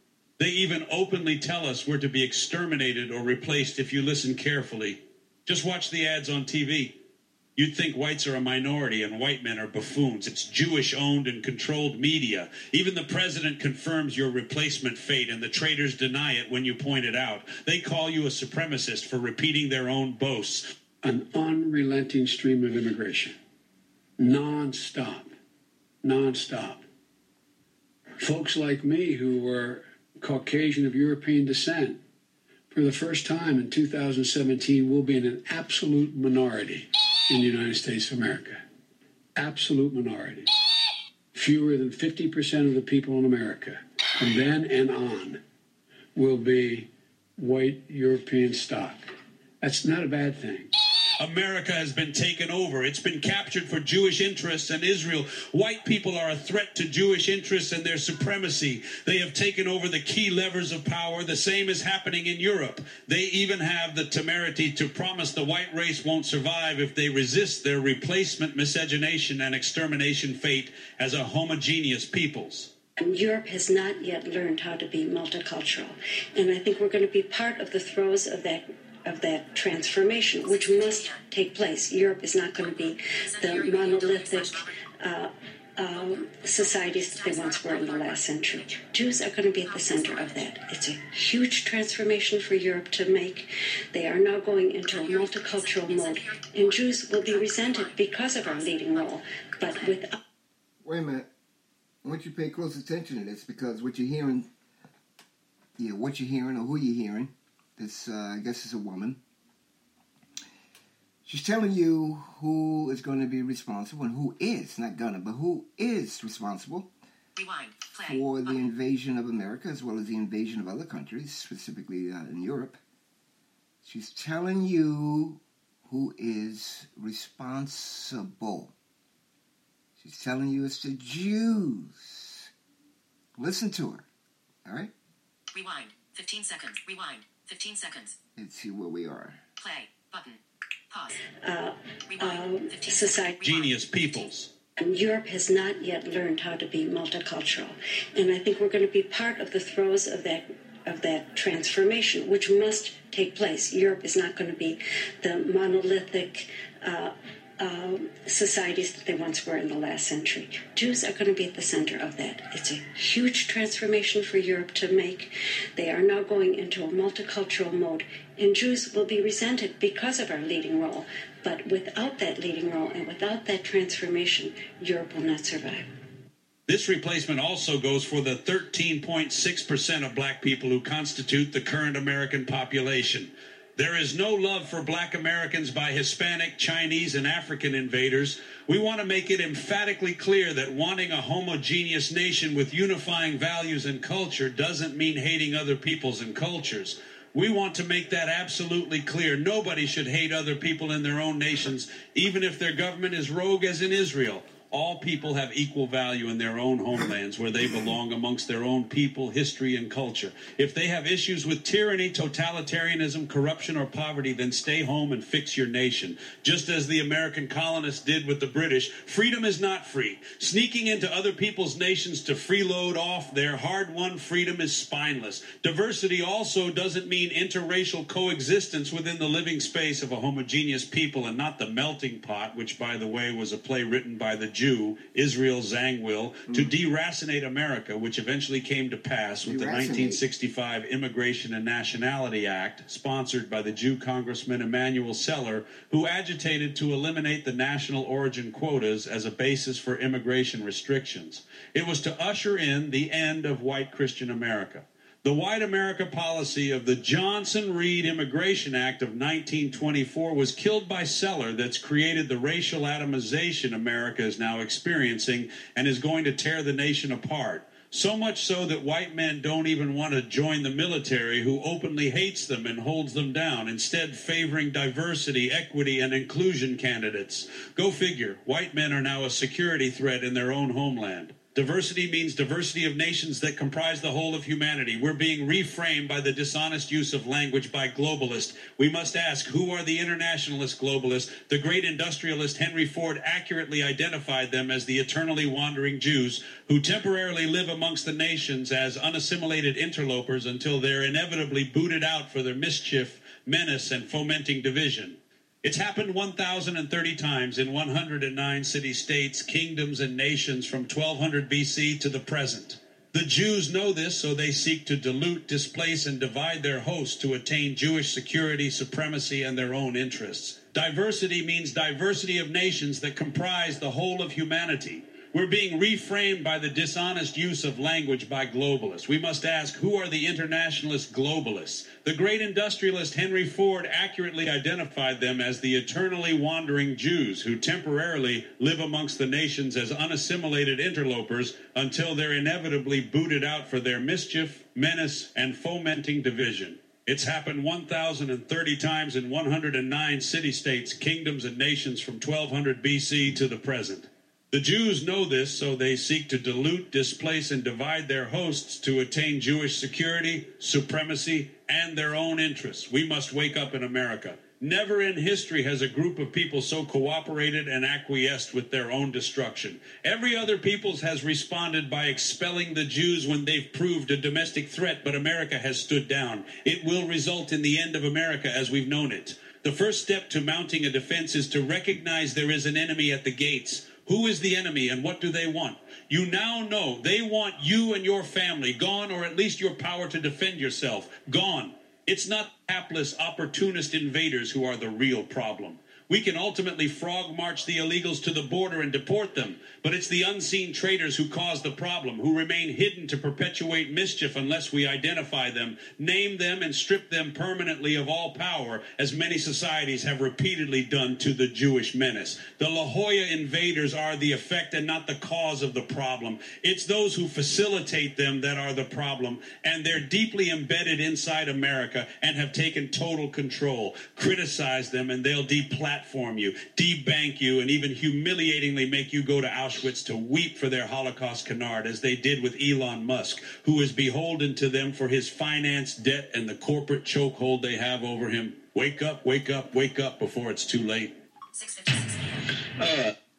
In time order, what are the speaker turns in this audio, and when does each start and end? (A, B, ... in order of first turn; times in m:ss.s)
0:00.4-0:07.0 A
0:07.6-0:20.6 A
0:21.0-0:23.4 B
0:24.2-0:25.3 B
0:26.0-0:26.8 B
0:28.2-0:32.0 B
0:32.7-0:38.6 B
0:39.4-0:40.5 B
0:41.3-0:45.4 B
0:46.1-0:49.0 B
0:49.6-0:50.7 B
0:51.2-1:12.7 A
1:13.0-1:40.2 C
1:20.4-1:21.2 D
1:22.6-1:24.7 D
1:25.9-1:28.8 D
1:29.6-1:30.6 D
1:34.9-1:40.0 D
1:40.8-1:41.3 E
1:42.0-1:44.5 E
1:45.8-1:49.2 E
1:51.2-1:56.9 E
1:57.4-1:58.6 D
1:58.1-2:02.8 E
2:03.8-2:08.7 E
2:10.0-2:12.5 E
2:13.4-2:14.1 E
2:14.6-2:14.9 E
2:15.5-2:18.2 D
2:18.4-2:19.4 E
2:19.6-2:20.4 D
2:20.9-2:21.2 D
2:21.4-2:23.4 C
2:22.1-2:24.3 D
2:23.4-2:24.5 A
2:24.8-2:55.9 C
2:56.7-7:21.1 A
3:59.4-4:00.2 E
7:21.5-7:22.6 D